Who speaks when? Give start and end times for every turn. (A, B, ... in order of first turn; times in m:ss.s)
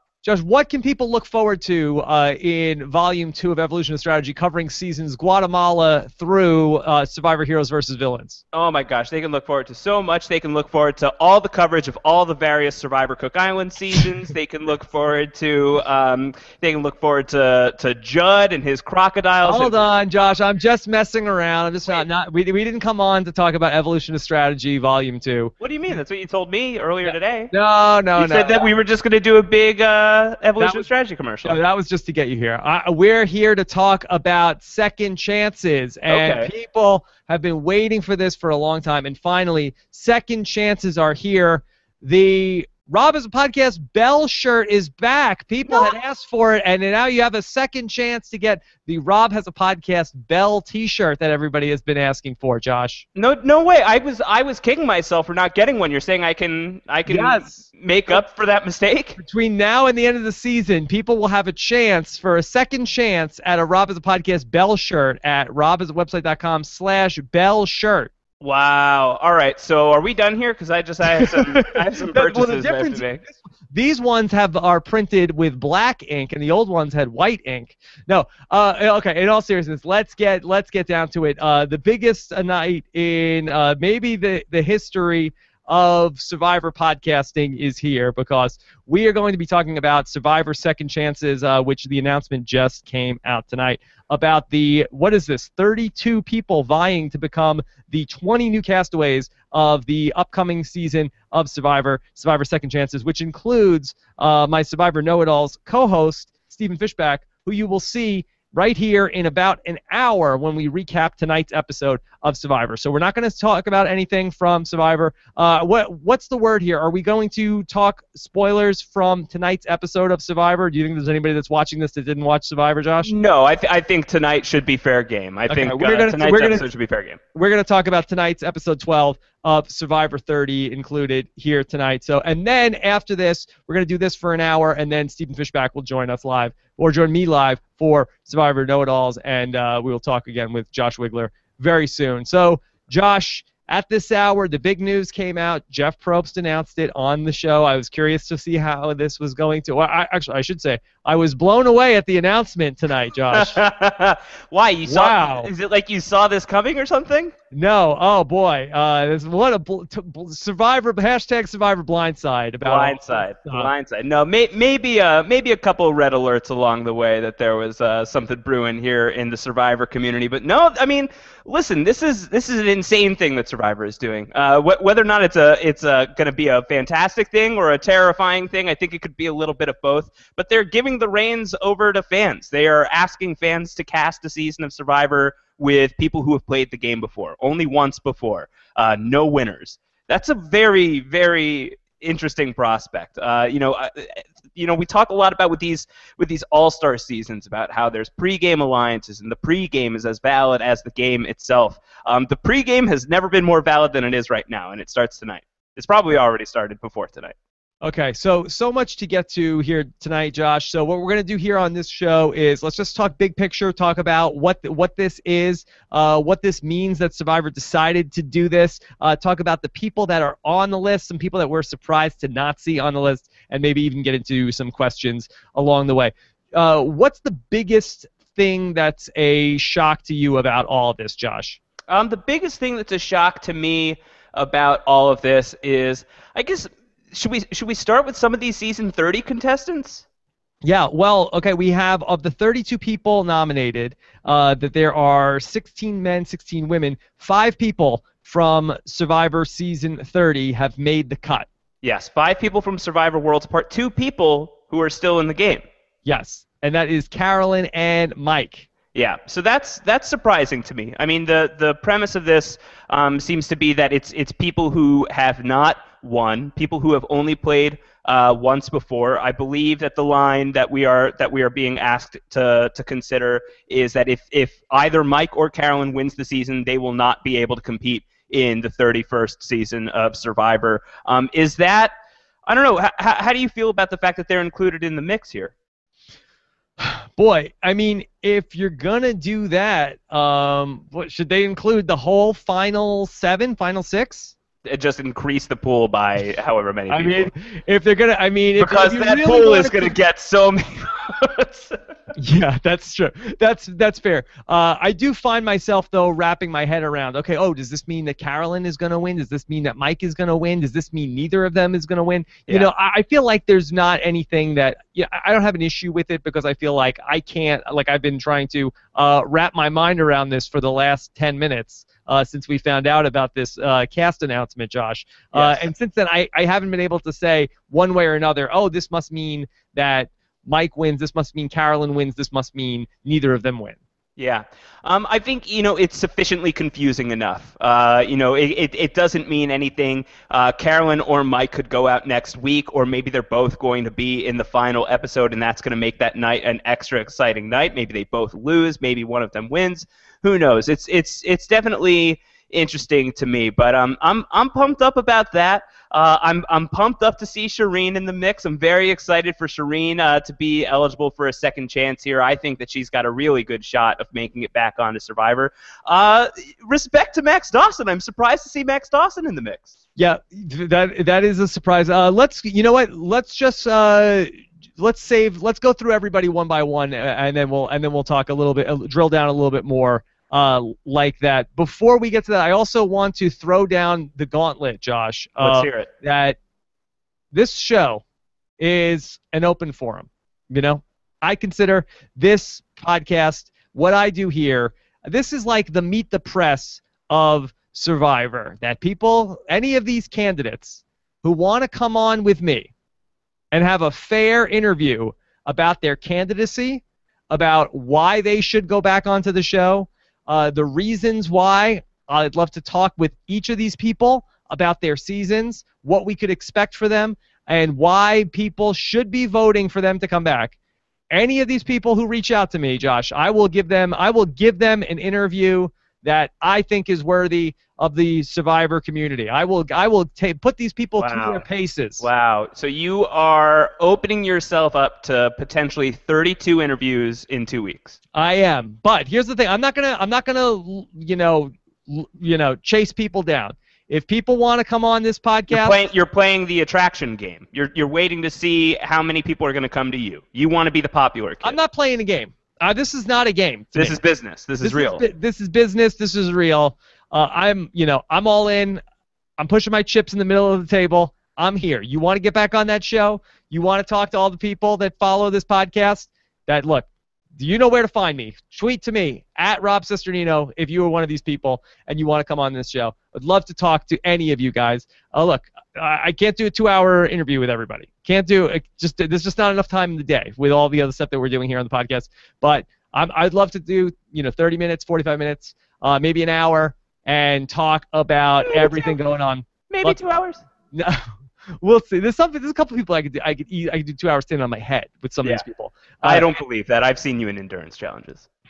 0:00.2-0:08.4 A
0:08.5-0:19.9 B
0:19.4-0:25.5 A
0:25.6-0:27.5 B
0:27.0-0:28.7 A
0:28.1-0:31.6 B
0:30.6-0:30.8 A
0:31.4-0:53.0 A
0:36.1-0:36.5 B
0:53.2-0:59.2 B
0:57.0-0:58.2 A
0:59.2-1:08.1 A
1:08.4-1:13.2 B
1:11.1-2:03.1 A
2:03.0-2:07.2 B
2:05.5-2:06.7 A
2:07.3-2:33.6 A
2:33.3-2:37.3 B
2:34.8-2:35.5 A
2:37.5-2:43.7 A
2:42.6-3:27.3 B
3:27.8-3:51.6 A
3:51.9-4:00.0 B
4:00.6-4:11.5 A
4:11.8-4:15.6 B
4:16.0-4:18.7 A
4:18.9-4:41.9 B
4:42.4-4:45.5 B
4:46.8-4:54.3 A
4:54.6-4:57.3 B
4:56.9-5:00.0 A
4:58.6-5:01.8 B
5:02.2-5:33.8 A
5:25.3-5:25.7 B
5:34.2-6:09.7 B
6:10.0-6:26.4 A
6:25.4-6:25.9 B
6:27.3-6:28.0 A
6:28.6-6:42.7 A
6:43.5-7:00.5 A
7:01.1-7:12.1 A
7:11.0-7:11.4 B
7:12.0-7:18.0 B
7:18.1-7:25.8 A
7:25.5-7:31.6 B
7:31.4-7:34.0 A
7:33.7-7:35.0 B
7:34.6-7:38.8 A
7:39.4-8:10.0 A
8:08.4-8:08.9 B
8:09.7-8:10.4 B
8:10.7-8:11.0 A
8:11.6-8:16.3 A
8:16.0-8:18.3 B